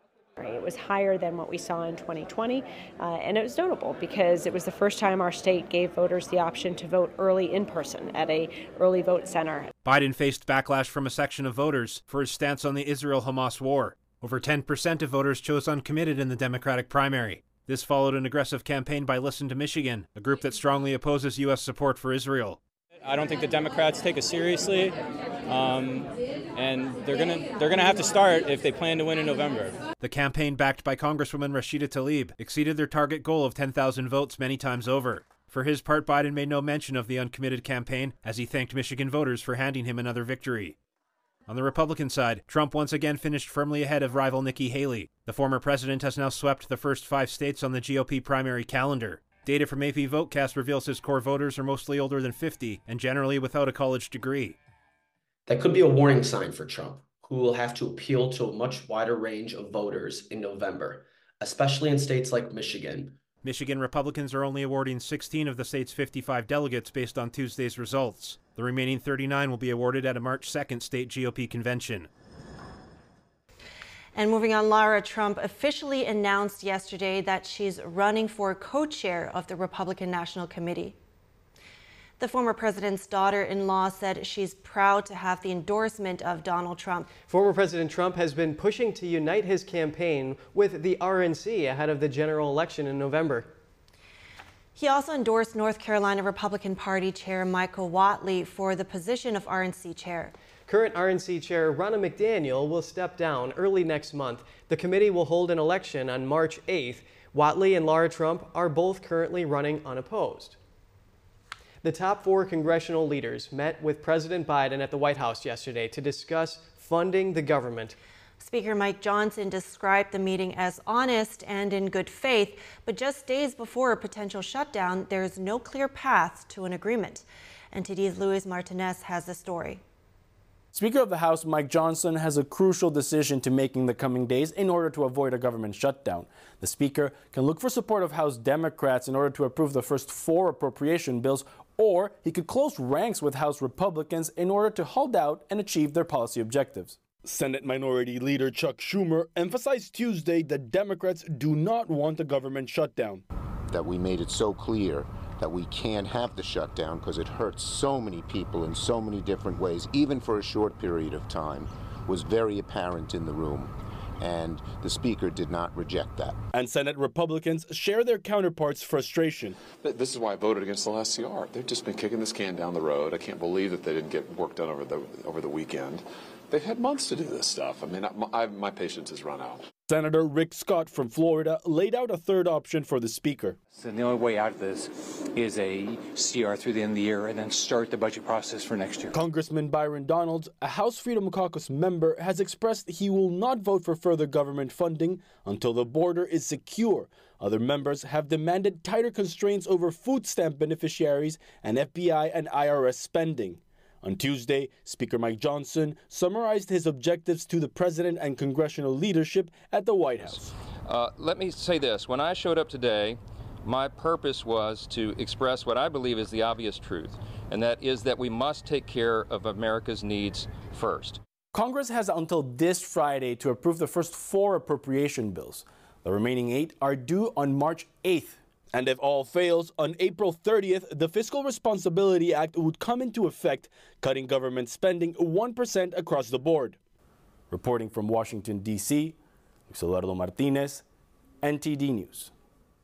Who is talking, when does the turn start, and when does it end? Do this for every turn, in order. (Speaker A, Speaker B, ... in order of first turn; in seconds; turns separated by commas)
Speaker A: 0.4-9.7, Speaker B: 9.8-22.6, Speaker C: 23.0-25.0, Speaker C: 25.5-29.8, Speaker B: 30.0-40.8, Speaker B: 41.5-54.6, Speaker D: 55.5-63.2, Speaker B: 63.4-72.1, Speaker E: 74.2-81.0, Speaker E: 82.2-87.1, Speaker F: 87.3-93.5, Speaker E: 94.8-100.3, Speaker F: 100.7-110.6, Speaker F: 111.8-118.0, Speaker E: 118.4-129.8, Speaker G: 130.7-153.2, Speaker H: 153.7-166.4, Speaker G: 166.5-169.6, Speaker I: 169.8-179.6, Speaker G: 179.9-183.6, Speaker J: 183.7-189.2, Speaker G: 189.1-210.4, Speaker K: 210.8-221.2, Speaker G: 221.5-236.8, Speaker G: 237.5-239.2, Speaker G: 239.7-240.8, Speaker G: 241.4-242.3